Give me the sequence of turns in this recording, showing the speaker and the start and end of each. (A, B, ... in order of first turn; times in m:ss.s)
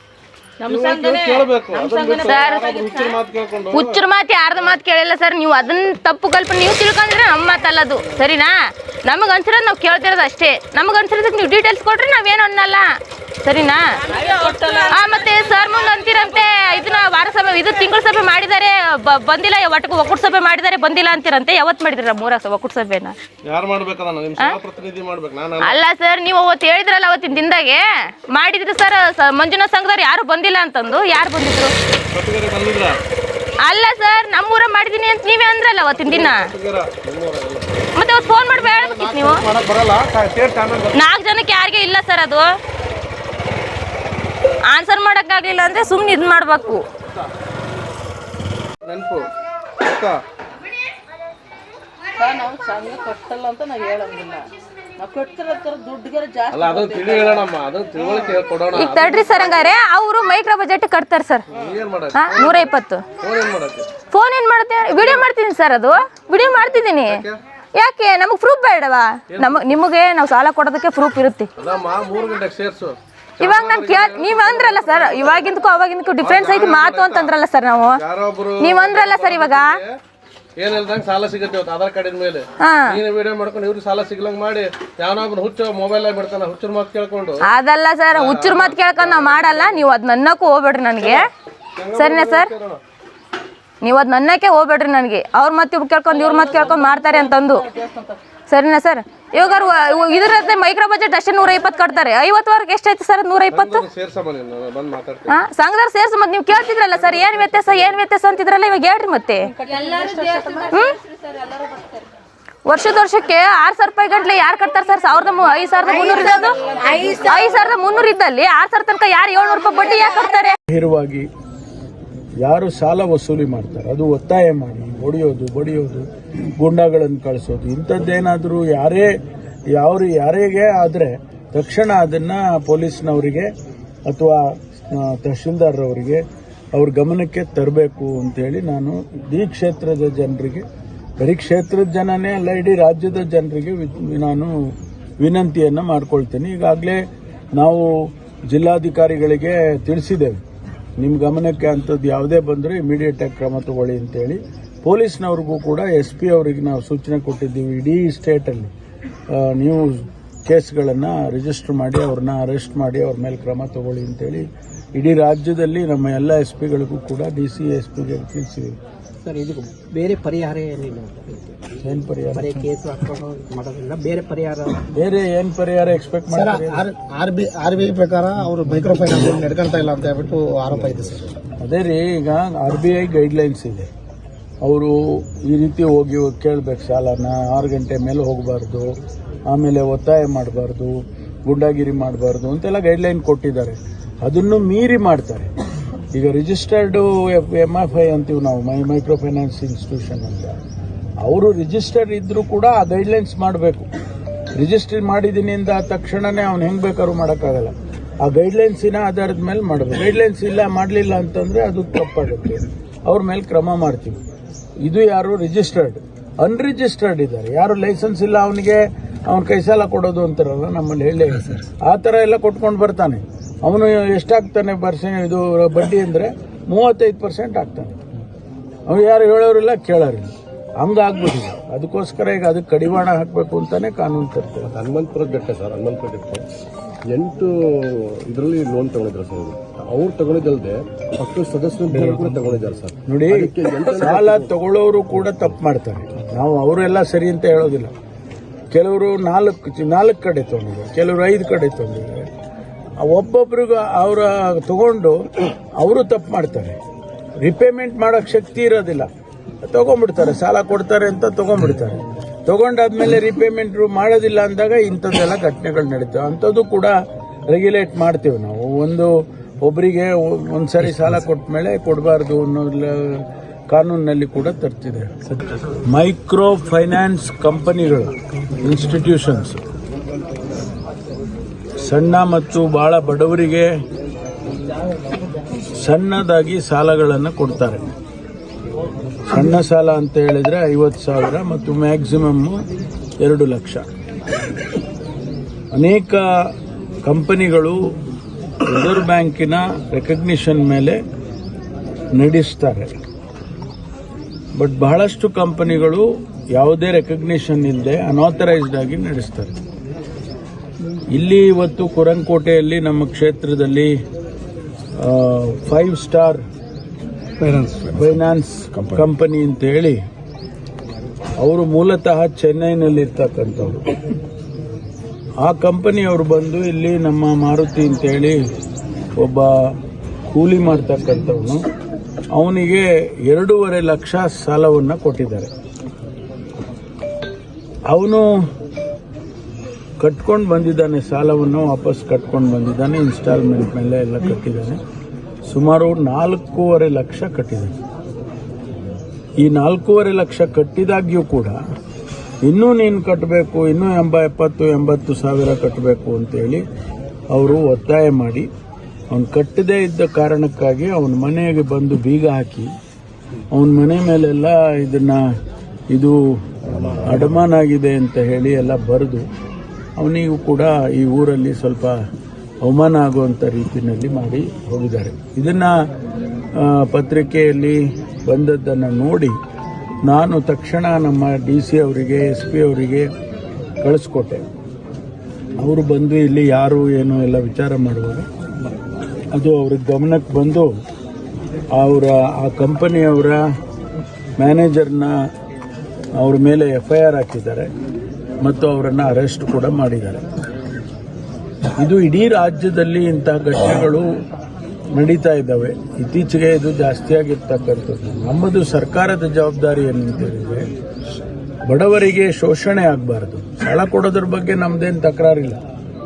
0:00.6-0:03.2 A
0:00.6-0:04.0 B
0:02.2-0:02.8 C
0:03.7-0:08.5 C
0:09.0-0:12.9 C
0:13.4-0:13.8 C
0:14.1-0:15.0 A
0:14.7-0:23.2 C
0:23.4-0:25.8 B
0:25.6-0:31.7 C
0:32.1-0:33.0 B
0:33.6-0:36.5 C
0:35.9-0:37.8 B
0:37.9-0:39.4 C
0:38.5-0:41.0 B
0:40.9-0:42.5 C
0:44.7-0:46.8 C
0:48.8-0:49.3 B
0:49.8-0:50.2 B
0:52.2-0:54.4 A
0:55.0-0:57.5 A
0:56.5-0:59.7 B
0:58.7-1:01.4 C
1:01.5-1:03.9 B
1:02.1-1:03.0 C
1:04.1-1:07.2 C
1:05.0-1:05.2 B
1:07.1-1:07.4 B
1:07.7-1:11.5 C
1:09.3-1:09.7 B
1:11.6-1:15.4 B
1:13.4-1:18.0 C
1:16.2-1:17.3 B
1:18.0-1:19.9 B
1:18.6-1:19.8 C
1:20.6-1:27.4 B
1:22.6-1:23.0 C
1:27.4-1:31.3 C
1:28.1-1:29.8 B
1:31.8-1:32.8 B
1:31.9-1:32.5 C
1:33.8-1:37.6 C
1:36.1-1:38.2 A
1:38.5-1:43.8 C
1:43.5-1:45.4 B
1:45.3-1:49.5 C
1:49.5-1:52.0 A
1:50.7-1:51.0 C
1:52.6-2:00.6 C
1:56.0-1:57.5 A
2:00.7-2:01.3 D
2:02.4-2:06.0 D
2:06.6-2:09.1 D
2:09.7-2:13.5 D
2:14.1-2:16.2 D
2:16.7-2:20.6 D
2:21.2-2:24.5 D
2:25.2-2:27.0 D
2:27.5-2:27.9 D
2:28.5-2:30.4 D
2:31.0-2:38.7 D
2:39.3-2:48.7 D
2:49.2-2:51.4 E
2:51.8-2:52.6 D
2:52.3-2:54.8 E
2:54.9-2:56.8 D
2:56.3-3:01.3 F
3:01.6-3:03.9 D
3:04.6-3:08.9 D
3:09.5-3:15.5 D
3:16.1-3:20.6 D
3:21.2-3:23.8 D
3:24.5-3:34.2 D
3:34.8-3:48.0 D
3:48.9-3:54.7 D
3:54.6-3:56.4 G
3:57.1-4:04.5 G
4:01.9-4:02.4 D
4:03.1-4:07.9 D
4:08.7-4:12.3 D
4:13.0-4:16.8 D
4:17.4-4:19.1 D
4:19.6-4:26.9 D
4:27.5-4:29.1 D
4:29.6-4:39.6 D
4:41.8-4:43.7 D
4:45.8-4:47.8 D
4:49.3-4:52.6 D
4:53.2-4:53.8 D
4:55.7-4:56.5 D
4:57.0-4:57.8 D
4:58.6-5:01.0 D
5:02.2-5:02.9 D
5:04.5-5:09.5 D
5:11.1-5:13.9 D
5:15.0-5:16.4 D
5:17.6-5:20.0 D
5:21.4-5:23.8 D
5:25.4-5:28.4 D
5:29.2-5:31.6 D
5:32.3-5:35.5 D
5:37.9-5:38.3 D
5:40.0-5:44.8 D
5:45.5-5:47.7 D
5:49.4-5:51.6 D
5:52.4-5:56.6 D
5:57.3-5:58.5 D
5:59.1-6:02.7 D
6:03.5-6:05.2 D
6:07.0-6:09.2 D
6:10.0-6:12.0 D
6:12.6-6:15.7 D
6:16.6-6:19.3 D
6:20.0-6:23.1 D
6:23.8-6:24.4 D
6:25.6-6:28.3 D
6:29.3-6:30.7 D
6:31.7-6:33.4 D
6:34.4-6:35.1 D
6:36.2-6:37.7 D
6:38.4-6:40.2 D
6:41.8-6:44.0 D
6:44.9-6:50.7 D
6:51.6-6:55.6 D